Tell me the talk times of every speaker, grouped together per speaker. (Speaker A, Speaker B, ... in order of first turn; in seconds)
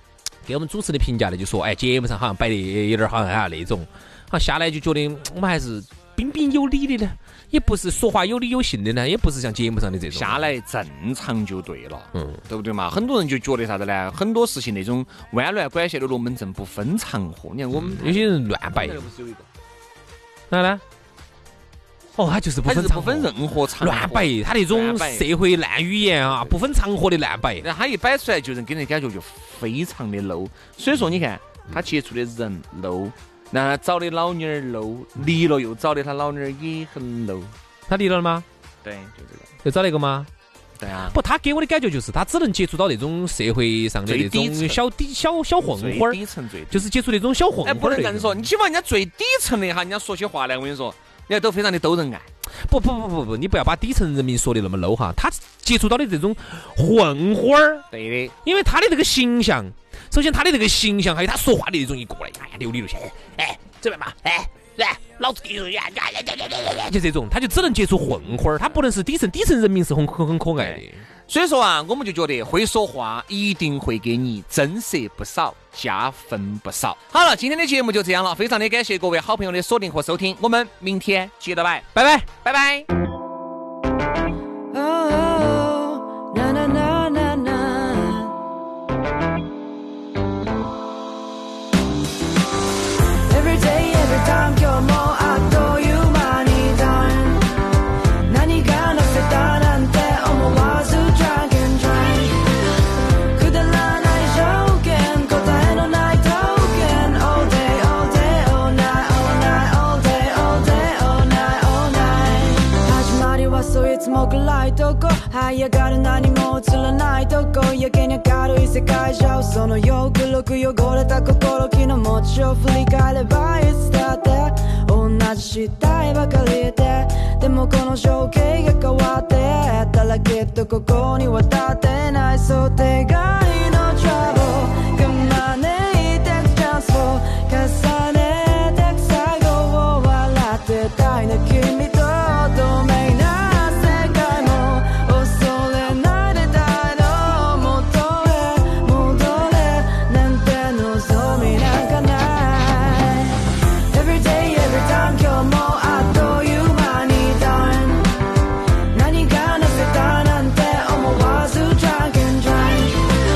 Speaker A: 0.5-10.5, 12.1-12.4, 17.7-19.1, 20.5-20.8, 22.2-23.3, 23.8-27.6, 37.9-38.5, 39.6-40.3, 41.1-46.2, 46.7-48.5, 52.7-57.9, 58.4-71.0, 82.0-82.3
Speaker B: 10.1-19.5, 22.7-25.3, 27.6-37.5, 38.8-39.5, 40.8-41.2, 44.1-44.8, 45.7-46.9, 47.6-52.3, 57.9-58.4, 70.6-81.9, 82.4-82.9
Speaker C: 84.7-88.3, 93.3-97.6, 98.2-102.6, 103.3-158.2, 158.9-163.2